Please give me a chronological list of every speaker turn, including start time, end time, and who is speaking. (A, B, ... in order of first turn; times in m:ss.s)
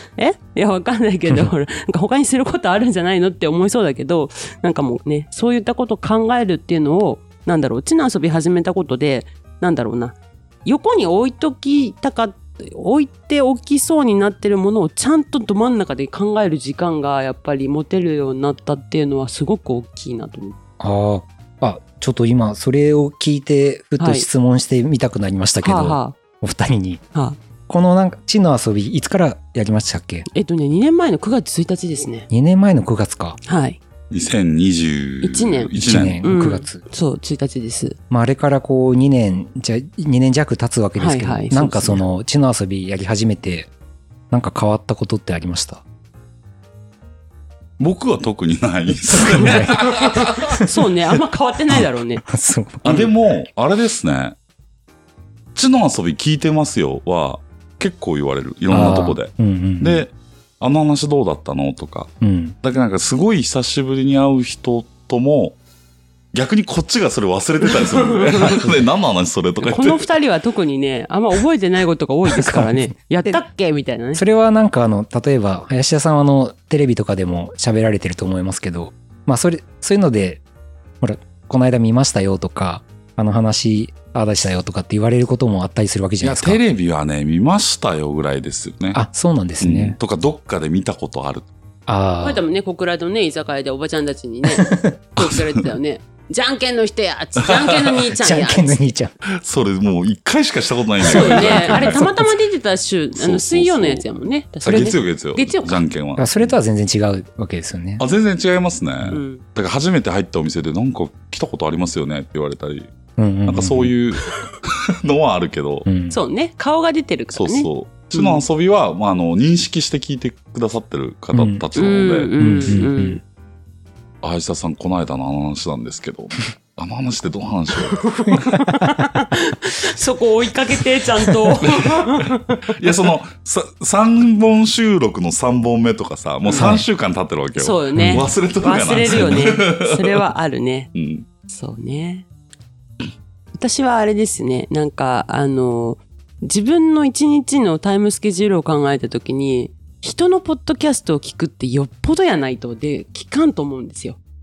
0:00.2-0:20.6 A
0:20.8-0:27.0 B
0:24.0-0:24.3 A
0:25.6-0:26.2 A
0:27.7-0:30.3 B
0:30.3-0:32.3 A
0:32.3-0:33.4 B
0:33.5-0:33.8 A
0:34.1-0:36.2 C
0:35.2-0:38.0 A
0:35.8-0:36.8 B
0:38.1-0:43.7 B
0:41.0-0:42.0 A
0:44.3-0:45.8 B
0:47.8-0:50.6 C
0:49.1-0:49.9 B
0:49.4-0:49.9 A
0:50.6-0:52.2 A
0:51.7-0:53.1 B
0:52.8-0:54.4 C
0:55.6-1:02.1 C
0:58.7-1:00.0 B
1:02.2-1:02.6 B
1:02.6-1:05.6 C
1:06.3-1:10.1 C
1:07.7-1:08.7 A
1:09.6-1:14.2 A
1:12.4-1:13.4 B
1:14.2-1:20.4 B
1:21.0-1:26.6 B
1:26.2-1:29.0 C
1:28.9-1:30.0 B
1:29.6-1:31.5 C
1:31.9-1:32.4 B
1:32.2-1:38.8 A
1:34.6-1:35.0 B
1:37.5-1:37.8 C
1:38.2-1:39.1 B
1:39.4-1:42.1 C
1:41.0-1:45.8 A
1:41.1-1:42.3 B
1:43.2-1:44.1 C
1:44.6-1:46.5 C
1:44.6-1:44.9 B
1:46.2-1:48.0 B
1:48.0-1:52.9 C
1:49.1-1:49.4 A
1:53.2-1:53.9 B
1:53.4-1:55.9 C
1:55.8-1:56.2 B
1:56.1-1:58.4 A
1:57.3-2:02.9 C
2:01.3-2:01.6 B
2:01.8-2:03.2 A
2:02.4-2:03.2 B
2:04.2-2:08.3 C
2:08.0-2:12.6 A
2:12.7-2:20.2 C
2:16.5-2:16.8 A
2:16.6-2:16.9 B
2:17.6-2:20.9 A
2:18.0-2:18.2 B
2:20.9-2:21.3 C
2:21.5-2:22.3 A
2:23.5-2:34.2 A